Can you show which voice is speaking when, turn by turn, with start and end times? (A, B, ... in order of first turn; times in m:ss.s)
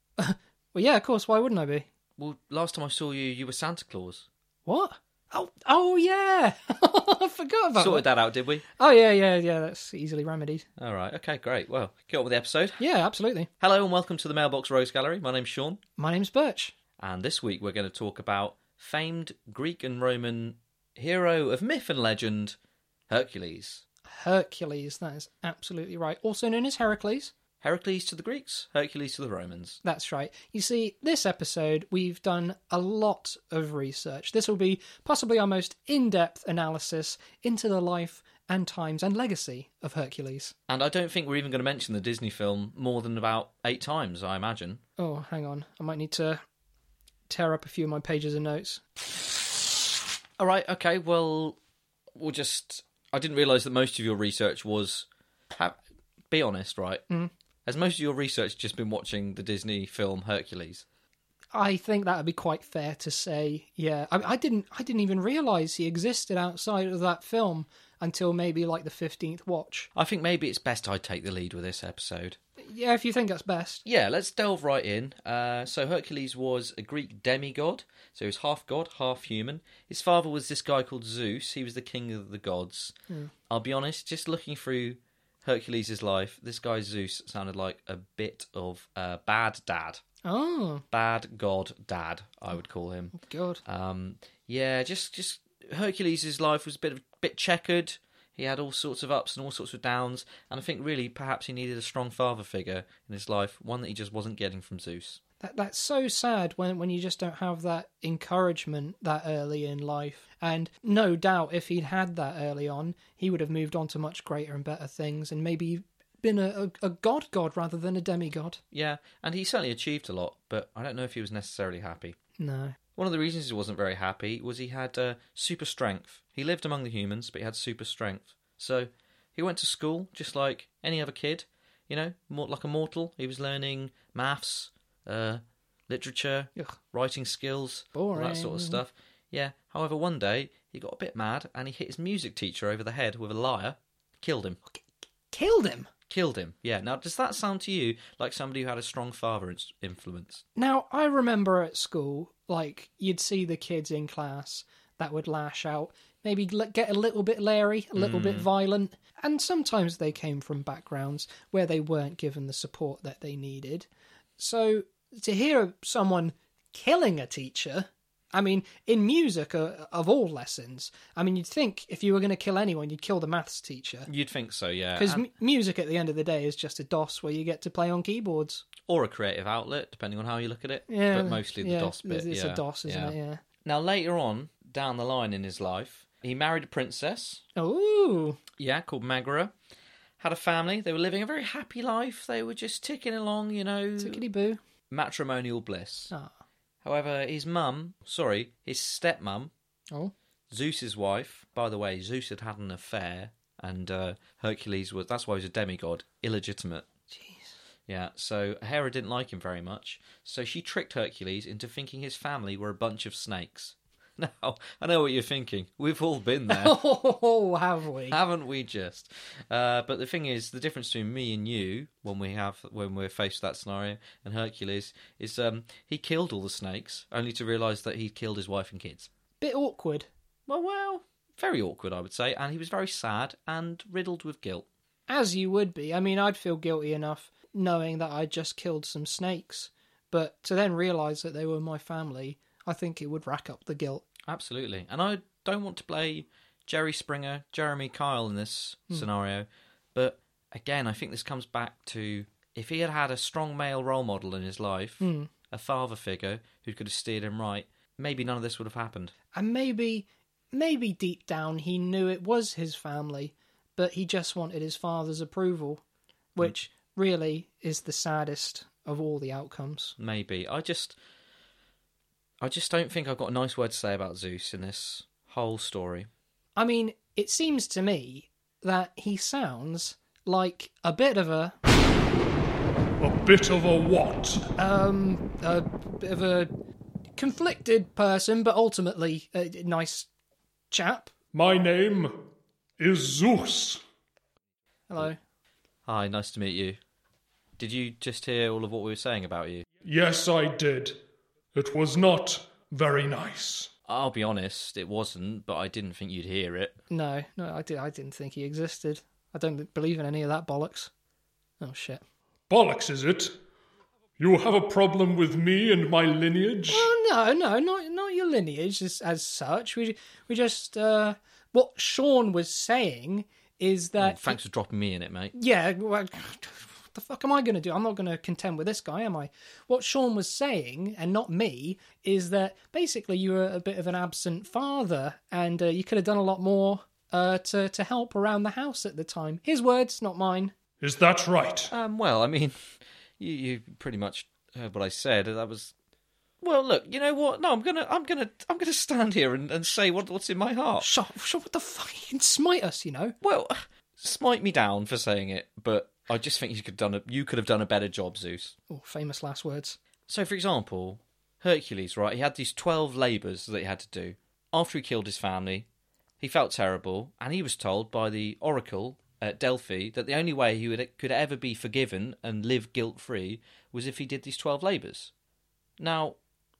0:00.2-0:01.9 A
0:02.2-0:04.3 B
0:04.6-0:08.1 A
0:07.8-0:08.6 B
0:08.8-0:10.7 A
0:10.8-0:12.8 B
0:12.8-0:13.5 A
0:13.6-0:15.8 B
0:16.0-0:16.7 A
0:17.0-0:22.6 B
0:23.1-0:23.8 B
0:24.1-0:27.3 A
0:27.6-0:29.8 B
0:29.8-0:40.5 A
0:40.7-0:44.8 B
0:45.0-0:46.4 A
0:47.3-0:48.8 A
0:50.4-0:51.6 B
0:52.1-0:55.8 B
0:56.3-0:57.0 B
0:57.7-1:00.8 B
1:01.5-1:09.9 A
1:09.9-1:12.4 B
1:12.6-1:13.8 A
1:13.8-1:22.9 B
1:23.5-1:30.0 B
1:30.2-1:30.8 A
1:30.9-1:33.1 B
1:33.1-1:33.6 A
1:33.6-1:45.2 B
1:45.4-1:58.6 A
1:58.7-2:02.2 B
2:02.4-2:02.8 A
2:03.0-2:24.6 B
2:17.9-2:18.8 A
2:25.3-2:25.9 A
2:26.1-2:30.4 B
2:30.6-2:54.1 A
2:38.0-2:38.5 B
2:54.1-2:55.2 B
2:55.0-2:58.6 A
2:58.9-3:07.4 B
3:00.9-3:03.4 A
3:07.6-3:08.4 A
3:08.6-3:09.5 B
3:10.2-3:14.2 B
3:14.0-3:14.6 A
3:14.9-3:16.1 B
3:16.8-3:19.5 B
3:20.5-3:26.9 B
3:27.1-3:27.5 A
3:27.9-3:36.8 B
3:36.5-3:38.2 A
3:38.1-3:49.1 B
3:49.4-3:50.1 A
3:50.5-3:54.6 B
3:55.1-4:04.0 A
4:04.3-4:19.1 B
4:15.0-4:15.3 A
4:19.3-4:25.8 A
4:26.3-4:29.9 A
4:30.0-4:31.0 B
4:32.4-4:36.1 B
4:36.6-4:41.6 A
4:43.0-4:44.5 C
4:44.6-4:46.5 A
4:47.2-4:50.1 A
4:50.7-4:51.1 A
4:51.3-4:53.8 C
4:54.9-4:55.2 A
4:55.8-4:56.8 B
4:57.6-4:59.6 B
4:59.8-5:01.0 C
5:01.5-5:03.7 C
5:03.9-5:06.8 B
5:06.9-5:10.9 A
5:11.6-5:12.0 A
5:12.5-5:13.4 C
5:14.2-5:16.9 C
5:16.7-5:24.4 A
5:24.0-5:25.3 B
5:25.3-5:40.5 A
5:40.8-5:41.7 C
5:41.7-5:42.6 B
5:43.2-5:45.7 B
5:46.4-5:50.9 B
5:50.8-5:53.1 A
5:53.2-5:58.5 B
5:58.7-5:59.8 A
6:00.1-6:05.7 B
6:06.2-6:15.1 B
6:15.8-6:16.2 B